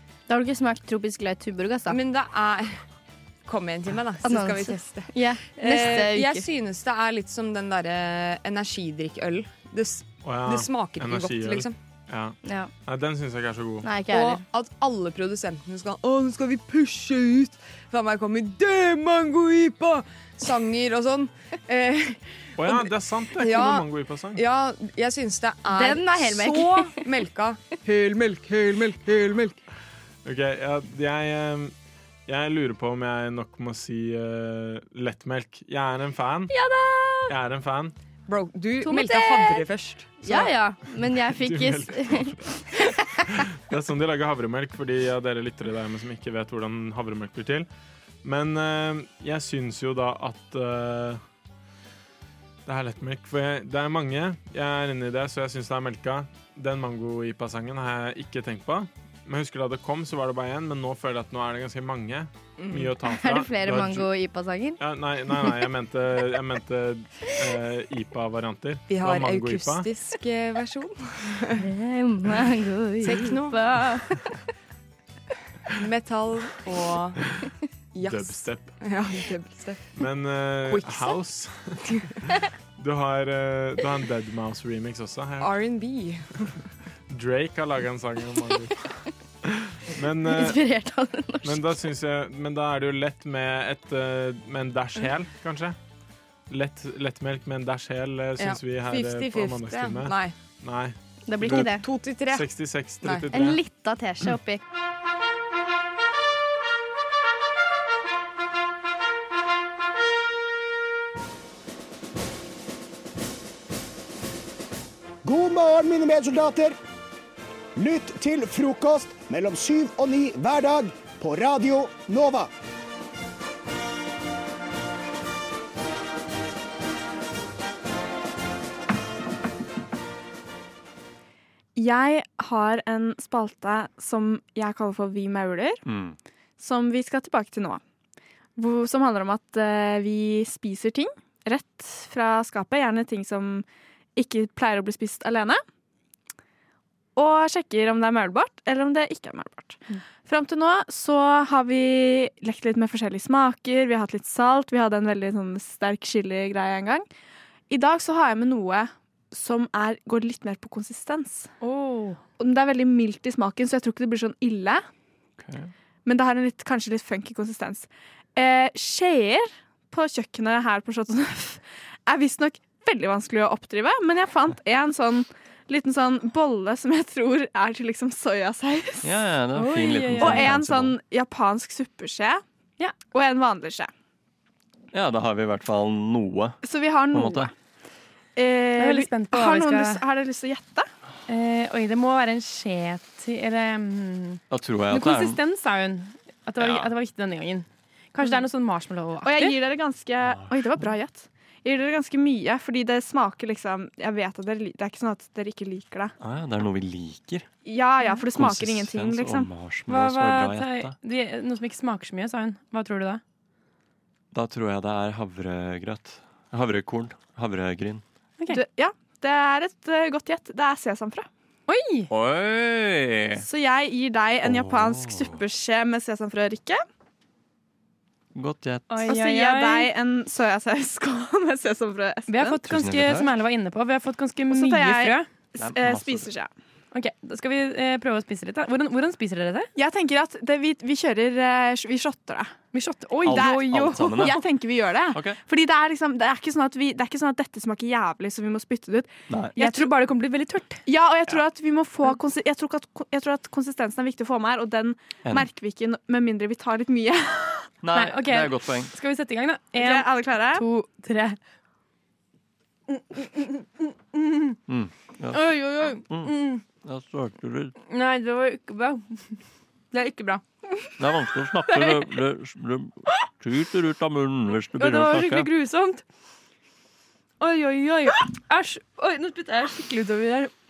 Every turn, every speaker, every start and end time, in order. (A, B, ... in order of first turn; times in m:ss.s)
0:00.3-0:02.0 A
0:01.9-0:02.8 B
0:03.4-0:11.8 B
0:04.2-0:06.4 A
0:10.2-0:13.9 C
0:12.4-0:12.7 A
0:13.8-0:14.4 A
0:14.1-0:29.6 B
0:22.6-0:24.4 C
0:25.7-0:26.9 A
0:30.2-0:31.7 C
0:32.3-0:36.5 C
0:36.5-0:37.3 A
0:37.3-0:37.9 C
0:38.3-0:40.4 B
0:38.8-0:39.6 A
0:40.2-0:42.9 A
0:41.0-0:47.7 C
0:48.2-0:51.2 C
0:52.6-1:04.1 C
1:02.6-1:02.9 B
1:03.0-1:04.8 A
1:04.8-1:09.9 C
1:08.9-1:11.6 B
1:11.6-1:14.0 A
1:13.0-1:13.8 B
1:15.7-1:17.2 B
1:17.9-1:19.9 B
1:18.0-1:18.8 C
1:20.0-1:21.8 C
1:20.7-1:21.2 B
1:22.8-1:25.5 C
1:25.4-1:26.5 B
1:27.1-1:30.6 C
1:30.2-1:31.8 A
1:31.4-1:35.8 C
1:36.5-1:41.8 C
1:38.4-1:40.3 B
1:41.3-1:41.8 A
1:41.4-1:42.5 B
1:42.3-1:43.6 C
1:43.0-1:43.3 B
1:43.3-1:44.6 A
1:55.2-1:56.8 D
1:57.8-2:02.5 D
2:11.8-2:15.8 E
2:15.9-2:16.2 F
2:16.6-2:17.8 E
2:18.6-2:23.6 E
2:24.2-2:25.6 E
2:27.2-2:37.0 E
2:37.7-2:41.5 E
2:41.6-2:42.2 G
2:42.4-2:44.8 E
2:45.4-2:45.7 F
2:46.0-2:59.2 E
2:59.0-3:01.0 F
2:59.5-3:00.5 G
3:00.2-3:02.4 E
3:03.0-3:03.9 E
3:04.9-3:06.6 F
3:06.6-3:07.5 E
3:07.1-3:07.5 F
3:08.4-3:10.9 E
3:08.8-3:10.0 G
3:11.3-3:19.5 G
3:14.5-3:15.4 F
3:16.6-3:16.9 F
3:19.2-3:26.1 E
3:20.2-3:20.6 F
3:26.2-3:27.5 F
3:27.6-3:29.5 E
3:28.3-3:31.0 F
3:29.9-3:33.2 G
3:34.3-3:38.0 F
3:38.5-3:41.3 E
3:41.7-3:42.1 G
3:42.1-3:43.4 F
3:43.4-3:46.8 E
3:44.4-3:45.4 F
3:48.3-3:49.0 F
3:48.9-3:49.9 G
3:49.0-3:52.6 E
3:52.3-3:55.3 G
3:52.7-3:53.3 F
3:54.5-3:56.5 E
3:55.6-3:56.3 F
3:56.9-3:59.7 G
3:59.8-4:02.5 E
4:02.7-4:04.2 G
4:03.2-4:04.4 F
4:03.2-4:09.9 E
4:05.1-4:05.4 F
4:09.3-4:09.6 F
4:09.6-4:10.8 G
4:10.9-4:17.7 E
4:17.8-4:18.9 F
4:17.9-4:21.4 G
4:19.8-4:20.6 E
4:24.1-4:24.5 G
4:24.7-4:27.8 F
4:25.3-4:26.6 G
4:27.9-4:29.3 G
4:29.9-4:30.4 G
4:31.0-4:35.5 F
4:34.8-4:36.0 G
4:37.4-4:40.5 G